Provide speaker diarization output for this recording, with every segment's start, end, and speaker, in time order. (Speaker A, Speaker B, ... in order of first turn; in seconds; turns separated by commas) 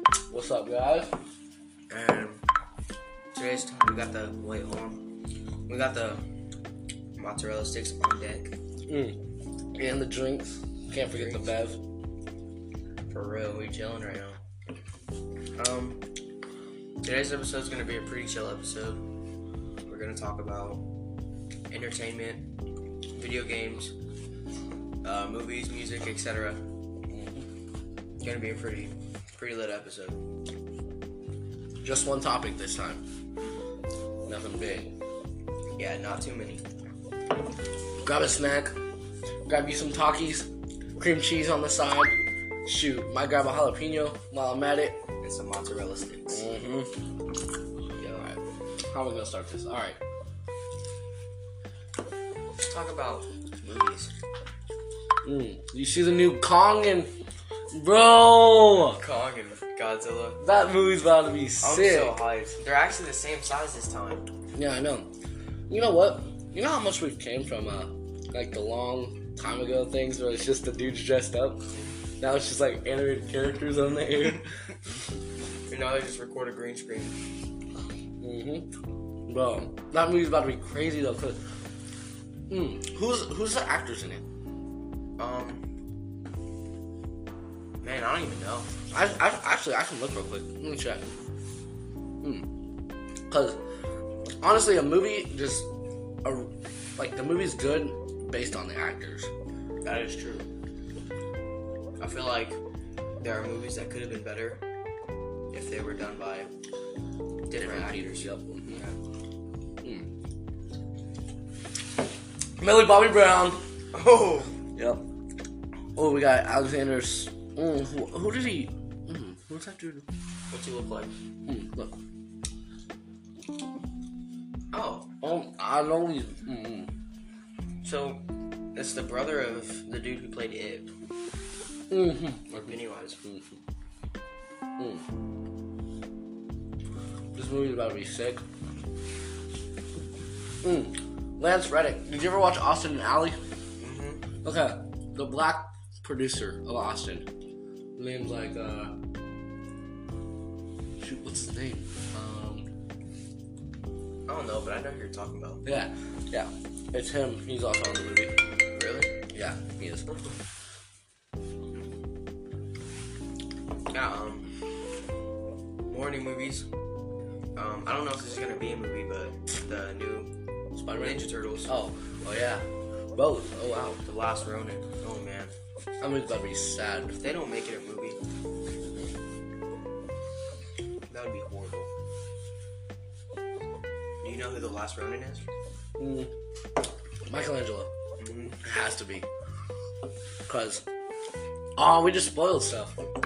Speaker A: 0.3-1.2, Speaker B: 1.9-2.4, Speaker B: 3.3-5.0, Speaker B: 5.7-6.2, Speaker B: 7.1-8.5, Speaker A: 8.9-9.2, Speaker A: 9.7-11.8, Speaker B: 11.1-11.5, Speaker B: 13.1-14.4, Speaker B: 15.6-16.0, Speaker B: 17.0-19.0, Speaker B: 19.9-20.8, Speaker B: 21.7-22.5, Speaker B: 23.1-23.9, Speaker B: 25.0-26.6, Speaker A: 27.1-27.4, Speaker B: 28.2-30.2, Speaker A: 31.8-33.0, Speaker A: 34.2-35.0, Speaker B: 35.8-36.6, Speaker A: 38.0-38.8, Speaker A: 39.5-45.0, Speaker B: 45.2-46.5, Speaker A: 46.3-46.9, Speaker B: 48.0-48.4, Speaker A: 48.9-50.0, Speaker B: 52.6-54.1, Speaker A: 55.2-57.1, Speaker A: 57.7-59.0, Speaker B: 58.9-60.4, Speaker A: 60.4-62.1, Speaker B: 61.6-64.3, Speaker A: 64.5-65.1, Speaker A: 65.7-71.6, Speaker A: 72.2-74.6, Speaker B: 75.7-77.2, Speaker A: 78.2-78.7, Speaker A: 79.3-81.4, Speaker A: 82.5-84.2, Speaker B: 85.2-85.6, Speaker B: 87.8-88.8, Speaker A: 88.9-91.1, Speaker A: 92.2-92.5, Speaker A: 93.3-93.6, Speaker A: 94.4-95.7, Speaker A: 96.2-99.3, Speaker B: 99.8-100.5, Speaker B: 102.0-102.6, Speaker B: 103.2-104.6, Speaker B: 105.5-106.5, Speaker B: 107.5-109.0, Speaker A: 107.6-108.8, Speaker A: 109.8-110.1, Speaker A: 112.6-113.6, Speaker B: 113.9-114.6, Speaker A: 114.7-115.1, Speaker A: 116.0-120.1, Speaker B: 120.5-121.2, Speaker A: 121.5-121.9, Speaker B: 124.7-125.1, Speaker A: 125.2-126.9, Speaker B: 127.8-130.9, Speaker A: 131.9-133.6, Speaker B: 132.5-133.2, Speaker A: 134.8-135.0, Speaker A: 137.3-138.4, Speaker A: 140.6-143.4, Speaker B: 143.8-144.3, Speaker A: 144.4-147.3, Speaker A: 147.9-148.9, Speaker A: 151.0-152.7, Speaker B: 154.3-155.6, Speaker A: 155.6-158.4, Speaker B: 158.7-159.2, Speaker A: 159.3-160.1, Speaker B: 163.9-164.5, Speaker B: 165.9-166.7, Speaker B: 167.6-170.3, Speaker A: 170.7-174.0, Speaker B: 170.9-171.8, Speaker B: 174.0-175.5, Speaker A: 176.0-177.2, Speaker B: 177.1-178.2, Speaker B: 181.1-181.9, Speaker B: 184.2-185.5, Speaker A: 186.0-186.3, Speaker A: 187.3-187.9, Speaker B: 188.2-188.6, Speaker A: 188.6-189.3, Speaker A: 190.4-190.8, Speaker A: 191.8-193.0